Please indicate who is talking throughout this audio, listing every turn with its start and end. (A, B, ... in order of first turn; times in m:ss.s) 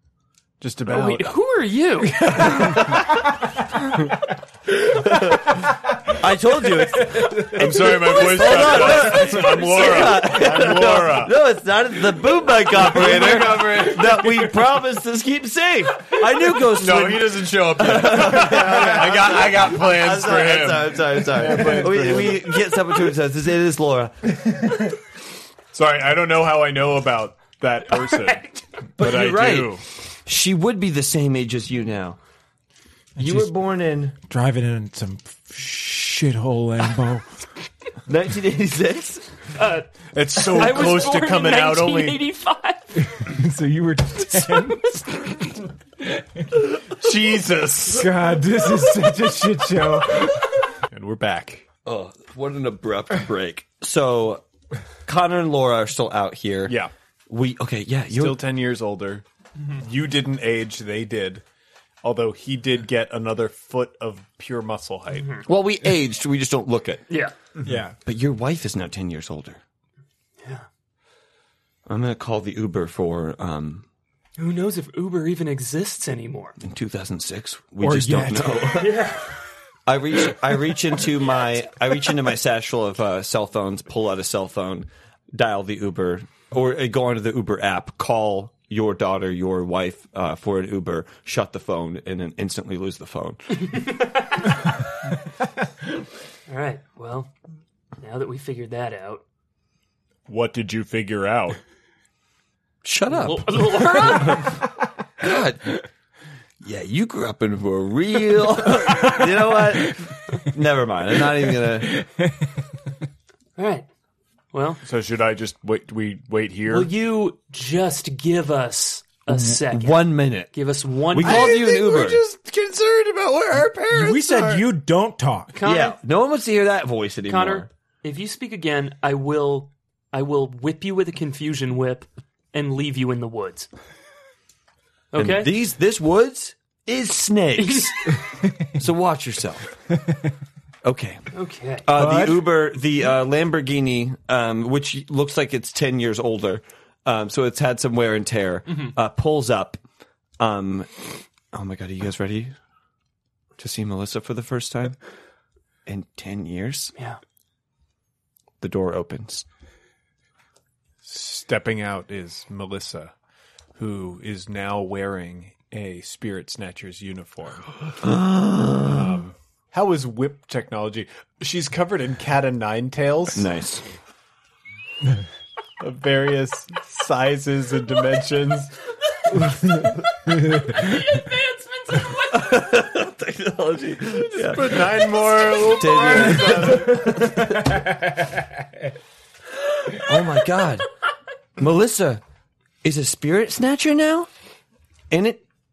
0:00.6-0:01.3 A
0:00.9-0:02.9 B
0:02.1-0:03.1 C
0:04.8-0:24.4 D
0:06.8-0:07.7 C
0:07.5-0:11.4 A
0:08.6-0:09.9 B
0:12.7-0:14.2 A
0:14.2-0:14.4 C
0:16.7-0:22.6 A
0:25.7-0:28.5 A
0:28.2-0:28.6 B
0:29.0-0:29.8 A
0:29.0-0:32.2 D
0:33.2-0:34.2 D
0:33.2-0:33.5 C
0:34.2-0:37.4 C
0:38.1-0:39.3 D
0:39.6-0:43.3 B
0:40.1-0:42.2 A
0:43.0-0:45.3 C
0:44.2-0:45.5 B
0:46.1-0:46.4 C
0:46.9-0:48.1 A
0:47.9-0:50.5 C
0:50.9-0:51.6 A
0:51.8-0:54.4 D
0:55.1-0:56.8 D
0:56.7-0:56.9 A
0:57.3-0:58.4 D
0:58.1-1:01.4 A
1:02.0-1:05.4 A
1:05.5-1:07.0 D
1:07.1-1:07.3 B
1:07.6-1:08.0 C
1:08.0-1:09.6 D
1:11.9-1:13.8 D
1:14.4-1:16.6 B
1:16.6-1:19.1 D
1:17.8-1:18.9 C
1:18.8-1:19.2 B
1:19.9-1:33.4 D
1:33.6-1:34.6 B
1:36.5-1:37.3 B
1:38.0-1:39.2 B
1:40.3-1:41.6 A
1:42.8-1:44.6 D
1:43.1-1:44.6 B
1:45.2-1:45.8 D
1:46.6-1:52.0 D
1:51.6-1:52.7 C
1:53.6-1:53.9 B
1:54.5-1:54.8 B
1:54.8-1:56.9 A
1:56.7-2:01.6 B
1:59.3-2:00.5 D
2:01.1-2:02.2 D
2:01.2-2:04.7 A
2:03.9-2:05.6 C
2:05.6-2:06.0 B
2:05.6-2:07.7 D
2:07.3-2:13.7 B
2:15.1-2:15.5 B
2:15.2-2:18.0 D
2:17.6-2:18.2 B
2:18.6-2:19.7 D
2:20.8-2:21.2 D
2:21.3-2:21.9 B
2:21.8-2:29.8 D
2:21.9-2:22.5 C
2:30.4-2:32.5 D
2:33.6-2:35.0 D
2:35.9-2:36.9 D
2:38.6-2:39.5 D
2:41.0-2:43.1 A
2:43.8-2:47.9 A
2:48.0-2:49.2 D
2:48.8-2:53.5 A
2:53.4-2:53.9 D
2:55.8-2:58.7 A
3:00.3-3:02.6 B
3:02.3-3:08.0 D
3:04.3-3:07.1 A
3:07.5-3:08.6 C
3:10.0-3:10.9 D
3:11.6-3:12.2 D
3:12.8-3:14.3 D
3:15.1-3:15.4 D